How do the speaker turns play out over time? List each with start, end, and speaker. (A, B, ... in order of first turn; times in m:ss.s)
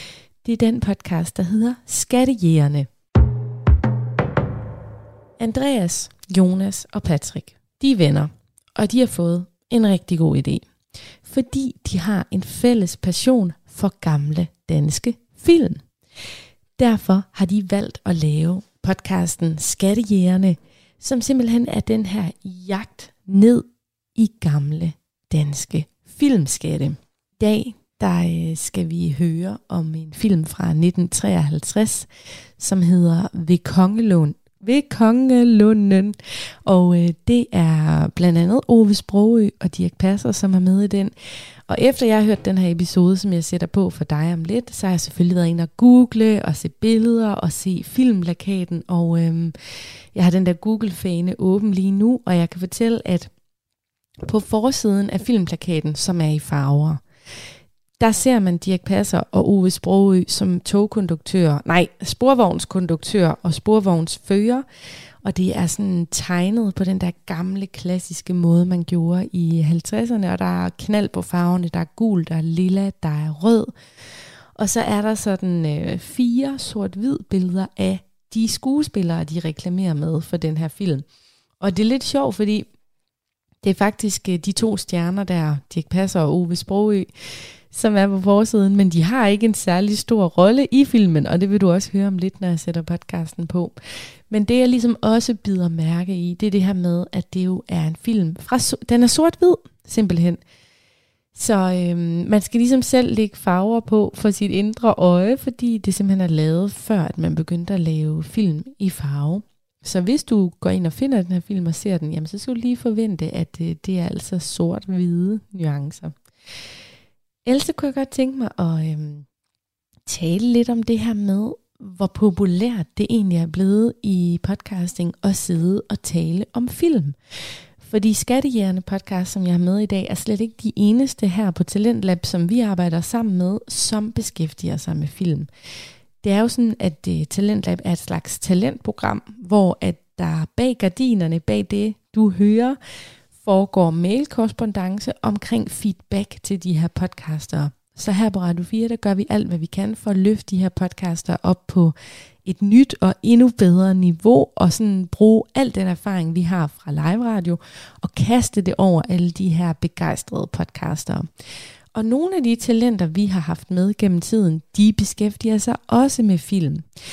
0:00.4-0:02.9 A
0:05.4-0:10.6 A
0:11.2-0:15.8 A
0:16.8-0:23.6 A
0:24.2-0:32.1 A
0:32.6-0:41.1 A
0:41.7-0:49.5 A
0:50.1-0:53.3 A
0:54.2-0:57.0 A
0:58.0-1:04.6 A
1:05.2-1:13.7 A
1:14.6-1:21.0 A
1:21.6-1:22.7 A
1:23.6-1:27.1 A
1:27.7-1:33.7 A
1:34.3-1:40.4 A
1:41.3-1:56.1 A
1:57.4-1:59.2 A
2:00.1-2:07.2 A
2:07.8-2:15.5 A
2:16.2-2:22.8 A
2:23.4-2:41.3 A
2:41.9-2:46.8 A